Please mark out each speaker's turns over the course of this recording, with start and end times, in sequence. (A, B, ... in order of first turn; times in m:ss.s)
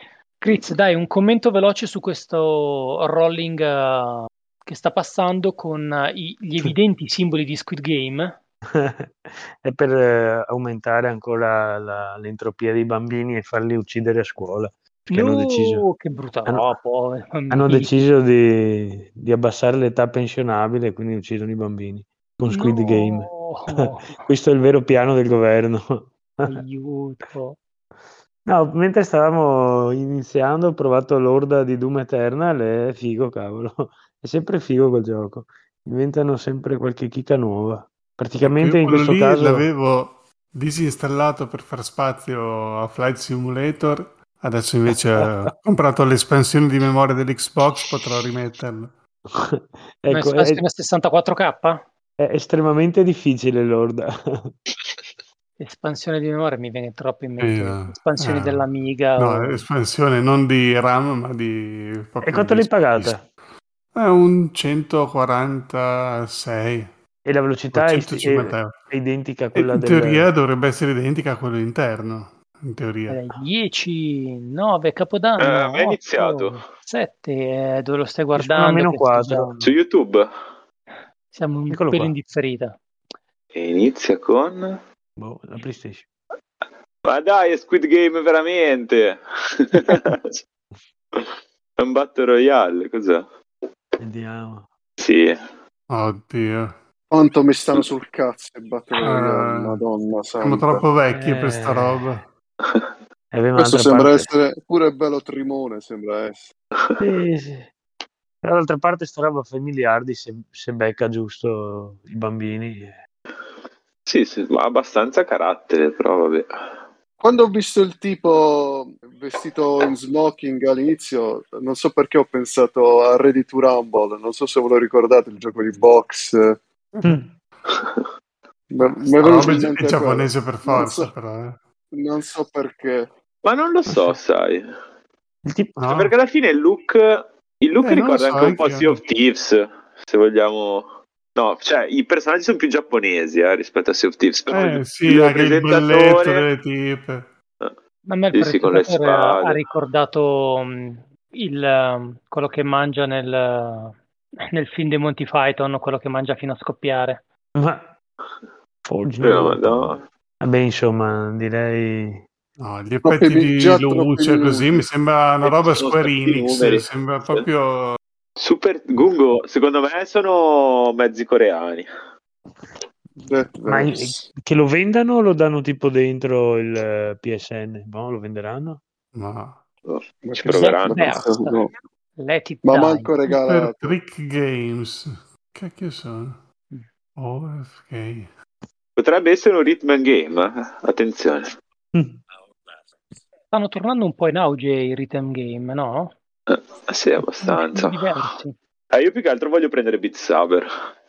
0:00.4-0:08.4 A
0:08.8-0:15.9 B
0:15.1-0:18.1 A
0:17.5-0:26.6 B
0:22.5-0:24.2 A
0:26.5-0:27.6 A
0:28.5-0:39.7 B
0:38.4-0:48.9 C
0:44.9-0:45.5 B
0:49.3-0:50.6 B
0:50.1-0:51.9 A
0:52.2-0:54.6 B
0:55.6-0:59.6 A
0:57.4-1:03.2 C
1:02.2-1:03.2 B
1:03.9-1:06.9 C
1:07.2-1:10.3 B
1:07.7-1:08.8 C
1:09.6-1:13.2 C
1:13.1-1:19.5 A
1:15.4-1:16.6 D
1:18.4-1:19.8 B
1:19.6-1:20.3 D
1:21.3-1:22.8 A
1:21.7-1:22.1 B
1:23.5-1:24.8 D
1:25.2-1:26.1 B
1:27.0-1:30.4 D
1:31.1-1:33.3 D
1:34.0-1:34.7 B
1:35.0-1:35.5 D
1:35.9-1:36.8 C
1:37.1-1:40.8 E
1:39.0-1:39.8 C
1:40.4-1:42.3 C
1:41.1-1:42.0 B
1:42.6-1:42.9 D
1:43.3-1:44.3 B
1:43.6-1:46.5 E
1:46.8-1:47.0 D
1:47.0-1:47.7 B
1:48.4-1:53.0 B
1:54.1-1:56.5 D
1:57.2-2:06.6 E
2:07.0-2:07.3 B
2:07.7-2:08.1 D
2:08.7-2:11.1 E
2:09.2-2:11.6 C
2:11.9-2:13.1 E
2:13.4-2:14.7 D
2:13.9-2:14.2 B
2:15.5-2:15.8 B
2:15.8-2:16.1 C
2:15.9-2:26.4 D
2:17.8-2:19.0 C
2:24.5-2:27.3 C
2:28.1-2:34.0 A
2:28.3-2:29.6 D
2:34.5-2:37.2 A
2:37.6-2:37.9 B
2:38.8-2:42.2 B
2:39.2-2:40.1 D
2:42.6-2:48.0 C
2:43.0-2:44.9 E
2:45.4-2:47.5 D
2:48.4-2:51.9 D
2:53.2-2:58.8 B
2:53.3-2:54.2 E
2:59.2-2:59.6 C
2:59.9-3:01.2 D
3:00.2-3:01.7 E
3:00.4-3:01.6 A
3:02.2-3:03.2 A
3:02.6-3:04.0 E
3:03.3-3:06.4 C
3:07.2-3:08.3 C
3:09.0-3:11.6 D
3:11.9-3:12.2 B
3:13.5-3:16.1 A
3:16.5-3:18.3 D
3:17.4-3:18.6 A
3:18.9-3:20.7 D